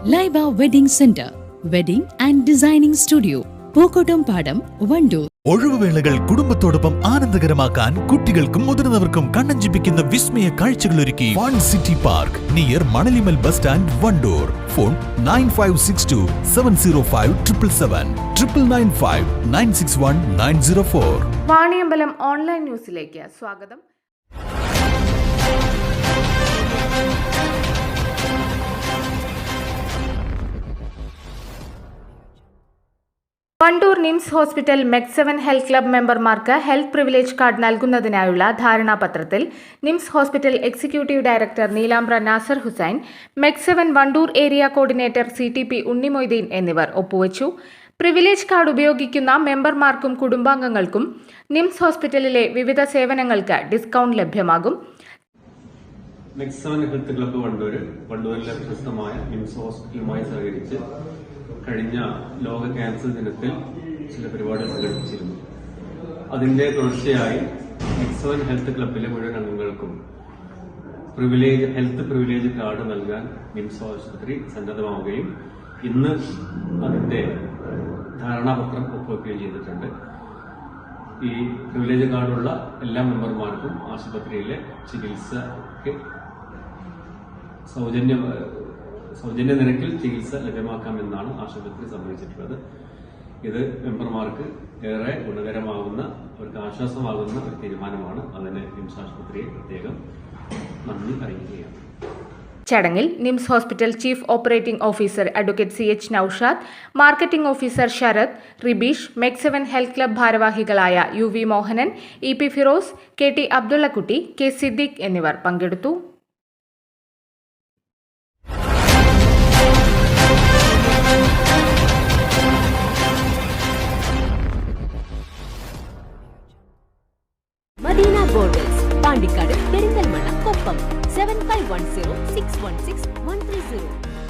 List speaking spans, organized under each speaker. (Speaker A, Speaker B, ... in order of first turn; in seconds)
Speaker A: 0.1-5.3
Speaker B: 5.5-21.3
Speaker C: 21.4-23.8, 33.6-54.8, 102.7-116.0
Speaker D: 56.4-60.8, 61.6-63.6, 64.1-65.4, 66.3-70.0, 71.1-75.3, 75.8-76.2, 76.8-77.3, 78.2-79.9, 81.2-86.0, 87.7-92.6, 93.4-100.0, 100.8-101.8
Speaker E: 127.8-134.0